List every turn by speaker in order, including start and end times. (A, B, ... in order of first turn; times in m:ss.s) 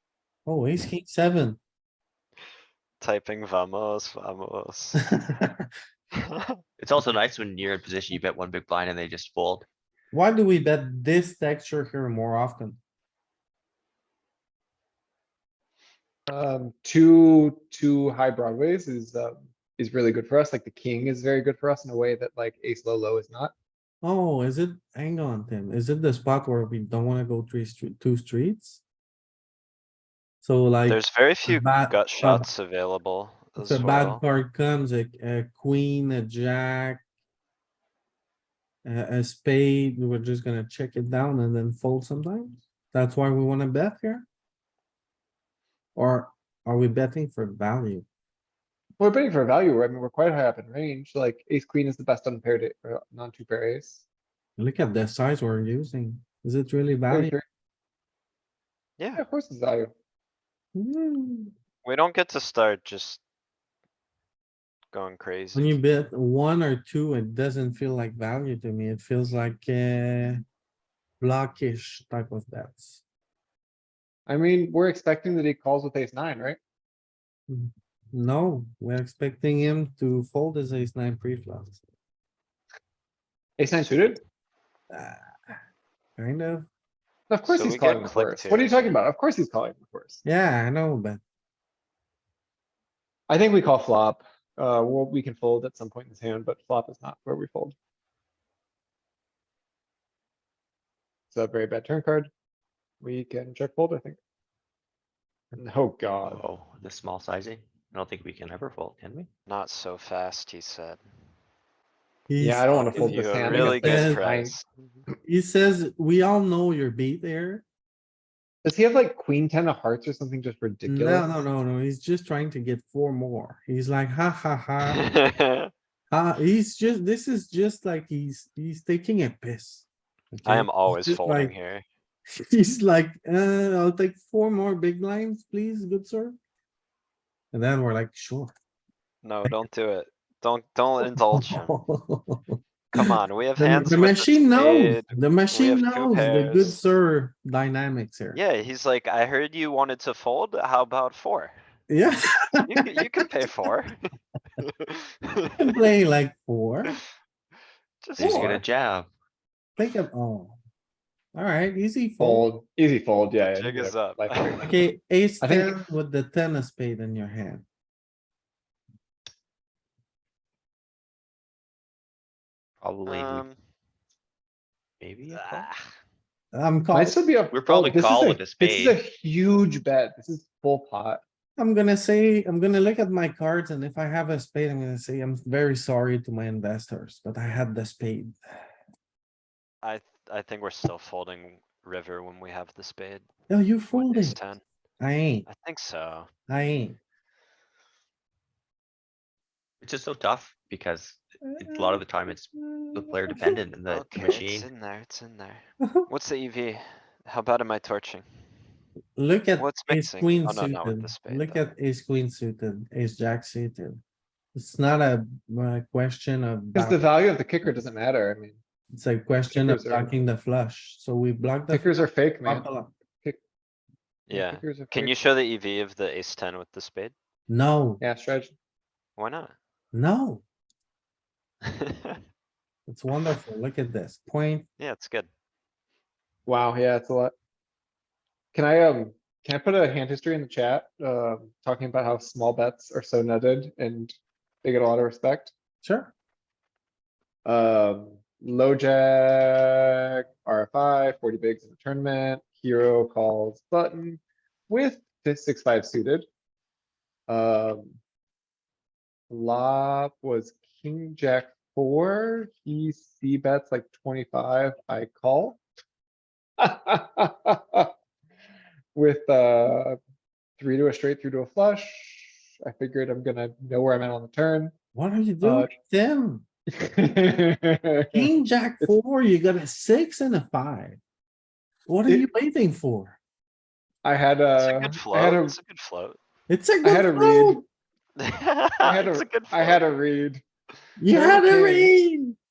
0:00.4-0:01.6 A
0:03.0-0:05.0 B
0:05.1-0:05.7 A
0:06.3-0:06.5 B
0:06.8-0:09.6 C
0:10.1-0:12.8 A
0:16.3-0:23.5 D
0:24.0-0:28.8 A
0:30.4-0:32.5 A
0:30.9-0:34.2 B
0:33.6-0:37.0 A
0:38.8-0:44.2 A
0:46.0-0:48.0 A
0:49.0-0:54.0 D
0:54.6-0:57.3 A
0:57.1-0:57.4 D
0:59.0-0:59.2 B
0:59.1-0:59.9 D
1:00.7-1:01.5 A
1:01.8-1:03.2 B
1:04.9-1:05.8 B
1:05.5-1:10.4 A
1:11.2-1:13.0 A
1:14.3-1:16.6 D
1:17.5-1:21.8 A
1:23.6-1:24.2 D
1:24.9-1:25.6 A
1:26.2-1:26.7 A
1:27.3-1:30.2 D
1:27.5-1:28.9 B
1:30.2-1:31.2 A
1:33.3-1:37.7 D
1:41.3-1:42.3 D
1:43.0-1:44.2 D
1:45.5-1:46.4 D
1:46.2-1:49.3 C
1:49.5-1:51.0 B
1:52.3-1:54.2 A
1:52.4-1:54.6 D
1:52.9-1:54.7 B
1:55.2-1:57.6 A
1:58.6-2:01.3 D
2:00.8-2:05.1 A
2:04.9-2:05.7 B
2:06.1-2:11.5 A
2:10.4-2:11.8 B
2:12.4-2:16.4 A
2:17.5-2:18.5 A
2:19.2-2:21.7 B
2:21.3-2:28.4 A
2:22.9-2:26.8 B
2:28.3-2:31.5 B
2:31.9-2:32.6 A
2:32.6-2:34.0 B
2:34.6-2:35.6 B
2:35.6-2:37.0 A
2:38.0-2:38.5 B
2:38.2-2:39.1 C
2:38.2-2:38.6 A
2:39.8-2:40.6 A
2:41.3-2:42.5 A
2:42.2-2:44.7 D
2:43.5-2:44.7 B
2:44.6-2:47.6 A
2:45.4-2:45.8 D
2:52.8-2:53.4 C
2:53.0-2:53.6 B
2:55.0-2:55.7 C
2:55.3-2:55.8 B
2:56.5-2:57.2 A
2:56.9-3:01.2 D
2:57.5-2:59.0 C
3:01.6-3:08.6 A
3:09.8-3:13.3 B
3:13.5-3:14.4 A
3:13.9-3:14.6 B
3:15.0-3:15.5 A
3:15.5-3:16.3 B
3:16.5-3:17.0 A
3:19.8-3:24.7 C
3:21.4-3:23.6 A
3:23.9-3:28.2 B
3:25.8-3:26.1 A
3:29.2-3:34.0 A
3:29.6-3:31.6 B
3:34.5-3:37.0 A
3:36.7-3:38.6 D
3:38.9-3:43.0 A
3:39.5-3:40.2 D
3:41.7-3:42.7 D
3:44.3-3:47.1 B
3:44.3-3:45.1 D
3:47.5-3:48.0 A
3:48.0-3:48.5 D
3:49.2-3:49.6 B
3:49.9-3:50.4 A
3:52.9-3:54.7 A
3:54.8-3:55.3 B
3:56.4-3:57.3 D
3:58.5-4:05.5 D
4:05.8-4:06.1 A
4:07.4-4:16.2 D
4:17.3-4:17.9 D
4:19.3-4:25.6 D
4:26.6-4:27.9 D
4:28.9-4:30.0 D
4:30.6-4:34.7 D
4:34.9-4:36.4 A
4:35.4-4:35.7 D
4:36.7-4:38.3 D
4:38.1-4:41.0 A
4:41.9-4:43.2 A
4:44.0-4:45.6 D
4:44.6-4:46.2 B
4:46.5-4:47.6 A
4:46.8-4:47.6 D
4:48.2-4:49.8 B
4:48.8-4:50.4 D
4:51.0-4:52.4 A
4:51.1-4:51.9 D